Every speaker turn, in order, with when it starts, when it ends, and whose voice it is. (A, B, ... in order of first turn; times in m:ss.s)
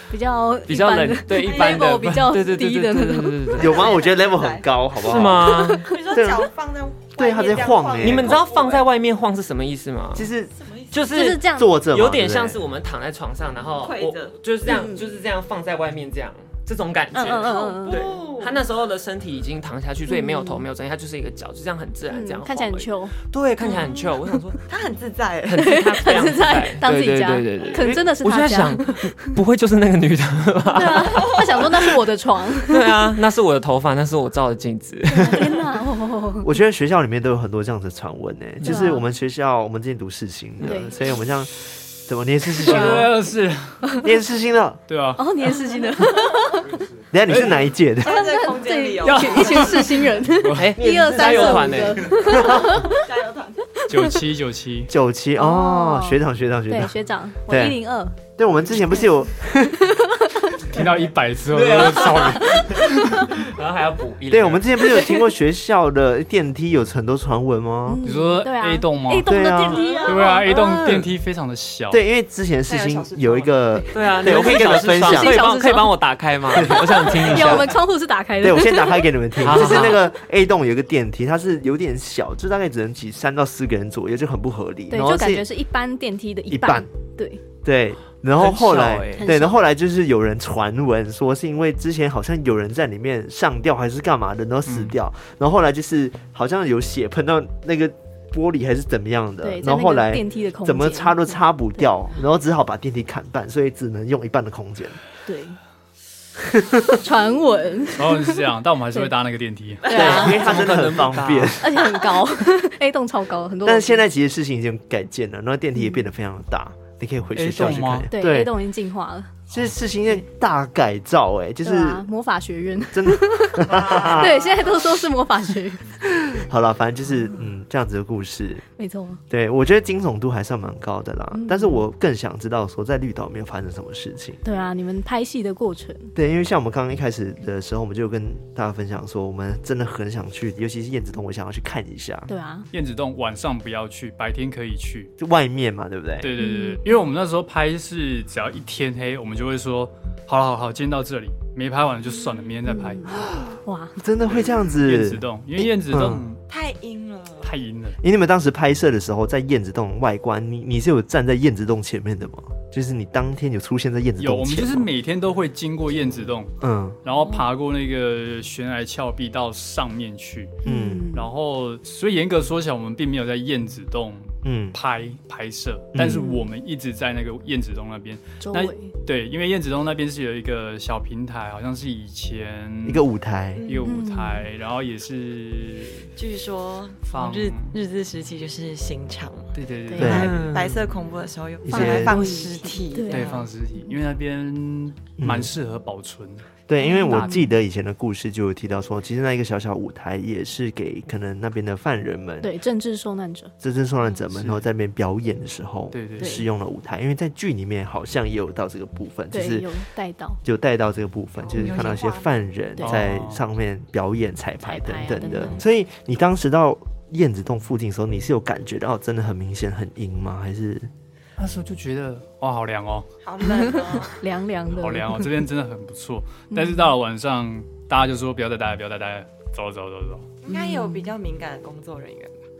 0:00.1-0:03.7 A
0:00.6-0:04.0 B
0:01.4-0:02.0 C
0:03.6-0:06.5 D
0:03.6-0:08.8 C
0:05.0-0:05.9 B
0:05.4-0:06.0 A
0:07.2-0:08.4 D
0:08.0-0:10.3 B
0:10.1-0:10.5 D
0:10.6-0:11.0 C
0:10.9-0:24.6 B
0:11.1-0:11.7 A
0:11.5-0:12.6 D
0:13.8-0:14.8 C
0:14.6-0:15.0 A
0:17.1-0:18.6 C
0:17.2-0:18.0 A
0:20.1-0:20.6 A
0:22.1-0:23.1 A
0:23.6-0:24.1 C
0:24.6-0:26.2 C
0:25.4-0:32.0 B
0:25.5-0:29.3 A
0:27.8-0:28.0 D
0:30.7-0:33.1 A
0:32.6-0:35.5 B
0:35.0-0:36.5 A
0:36.4-0:43.1 D
0:38.6-0:38.9 B
0:38.6-0:39.0 A
0:40.6-0:40.9 A
0:42.6-0:43.9 E
0:42.6-0:43.0 A
0:44.0-0:44.8 D
0:44.9-0:45.2 E
0:45.2-0:46.8 A
0:47.1-0:48.2 D
0:48.0-0:50.0 C
0:48.0-0:53.0 A
0:49.0-0:50.7 E
0:50.5-0:52.2 B
0:50.8-0:52.9 D
0:52.2-0:53.7 C
0:53.8-0:54.2 A
0:53.9-0:54.9 E
0:54.9-0:57.0 D
0:55.4-0:58.2 A
0:57.5-0:57.8 D
0:58.4-0:59.9 D
0:59.8-1:00.7 A
1:00.6-1:03.2 E
1:01.5-1:04.8 B
1:02.6-1:03.2 A
1:04.3-1:08.0 D
1:04.8-1:05.2 A
1:07.8-1:10.6 A
1:08.0-1:09.4 E
1:09.2-1:09.8 D
1:09.7-1:10.6 C
1:09.9-1:12.0 E
1:11.9-1:15.4 D
1:12.7-1:14.3 C
1:13.9-1:17.8 B
1:15.0-1:16.0 A
1:16.5-1:17.7 D
1:16.5-1:19.9 A
1:18.4-1:25.5 D
1:19.4-1:20.0 B
1:24.9-1:27.4 A
1:26.5-1:26.9 D
1:27.6-1:45.0 D
1:28.4-1:29.3 B
1:29.2-1:29.6 A
1:34.7-1:34.9 E
1:39.4-1:41.9 A
1:45.2-1:45.6 A
1:46.4-1:47.0 D
1:46.9-1:48.4 A
1:48.0-1:49.9 E
1:49.8-1:50.2 C
1:49.8-1:50.4 A
1:49.9-1:51.8 D
1:49.9-1:51.6 B
1:51.6-1:54.0 A
1:53.6-1:58.4 D
1:57.4-1:58.5 E
1:58.1-1:59.3 A
1:59.5-2:02.0 D
2:01.6-2:06.0 A
2:02.9-2:04.3 D
2:03.7-2:04.8 C
2:06.1-2:08.6 D
2:08.8-2:09.2 A
2:09.3-2:14.4 D
2:11.3-2:11.8 A
2:14.4-2:16.1 A
2:16.2-2:22.3 D
2:22.3-2:22.7 A
2:22.7-2:25.1 E
2:25.2-2:26.3 D
2:26.2-2:33.0 E
2:26.4-2:26.9 A
2:32.6-2:34.0 A
2:33.1-2:36.3 D
2:34.2-2:36.4 E
2:36.5-2:37.5 C
2:37.4-2:38.0 E
2:38.0-2:44.9 D
2:44.2-2:50.6 E
2:46.6-2:47.0 D
2:50.6-2:51.1 D
2:50.6-2:51.3 A
2:51.1-3:03.0 E
2:54.4-2:54.8 D
2:55.9-2:56.3 D
2:56.0-2:56.5 A
2:58.4-2:58.9 A
3:02.8-3:03.6 D
3:03.5-3:04.0 C
3:03.6-3:06.1 E
3:03.8-3:04.5 A
3:06.2-3:13.5 C
3:07.1-3:07.8 E
3:09.5-3:10.4 E
3:09.9-3:10.2 A
3:10.0-3:10.4 D
3:10.1-3:10.8 B
3:11.6-3:12.2 D
3:11.7-3:14.0 A
3:13.1-3:16.5 E
3:15.2-3:15.5 D
3:16.7-3:22.5 D
3:16.8-3:17.5 A
3:17.0-3:17.4 E
3:22.4-3:23.5 A
3:23.6-3:29.7 D
3:24.3-3:24.6 E
3:25.9-3:26.4 E
3:26.2-3:26.4 A
3:29.3-3:30.4 A
3:30.4-3:40.9 D
3:31.4-3:32.3 C
3:32.8-3:33.4 E
3:34.6-3:35.6 A
3:35.2-3:35.6 C
3:41.4-3:43.1 E
3:43.2-3:44.2 C
3:43.5-3:45.3 A
3:44.7-3:50.3 E
3:46.5-3:46.9 A
3:50.4-3:52.4 C
3:50.5-3:51.1 A